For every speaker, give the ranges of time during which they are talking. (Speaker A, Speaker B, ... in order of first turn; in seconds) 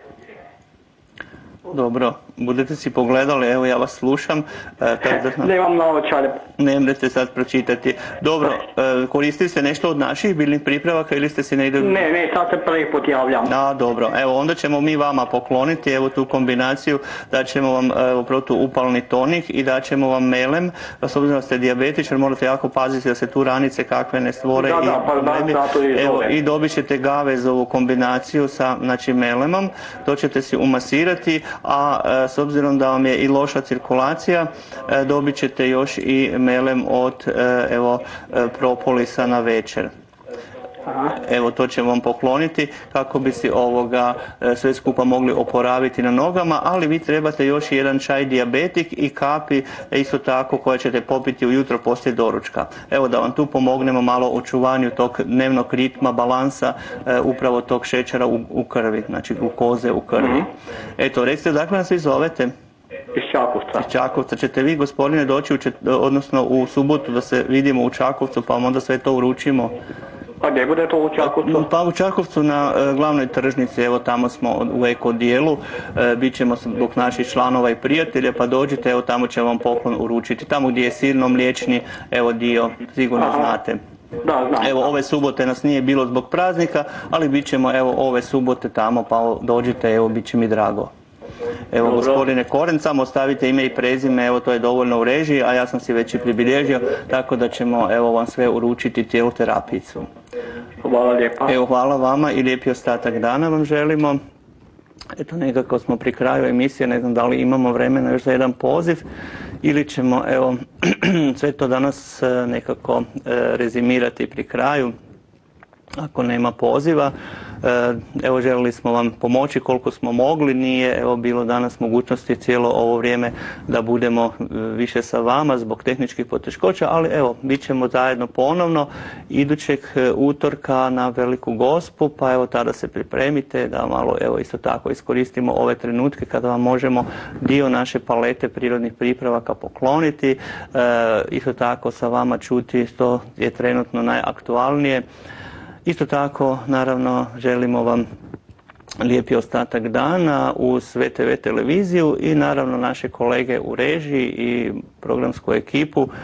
Speaker A: 1.7-5.5, 6.6-12.1, 13.5-39.9, 41.2-62.5, 63.8-69.8, 71.2-83.8, 84.6-90.9, 91.7-100.1, 101.5-104.2, 105.2-109.0, 109.6-114.9, 116.0-145.0, 145.9-148.1, 149.0-156.1
Speaker B: 5.2-6.4, 11.8-13.5, 24.5-26.3, 40.9-41.2, 60.2-60.5, 63.1-63.9, 70.4-71.7, 83.2-83.6, 84.2-84.8, 91.8-92.2, 100.8-101.5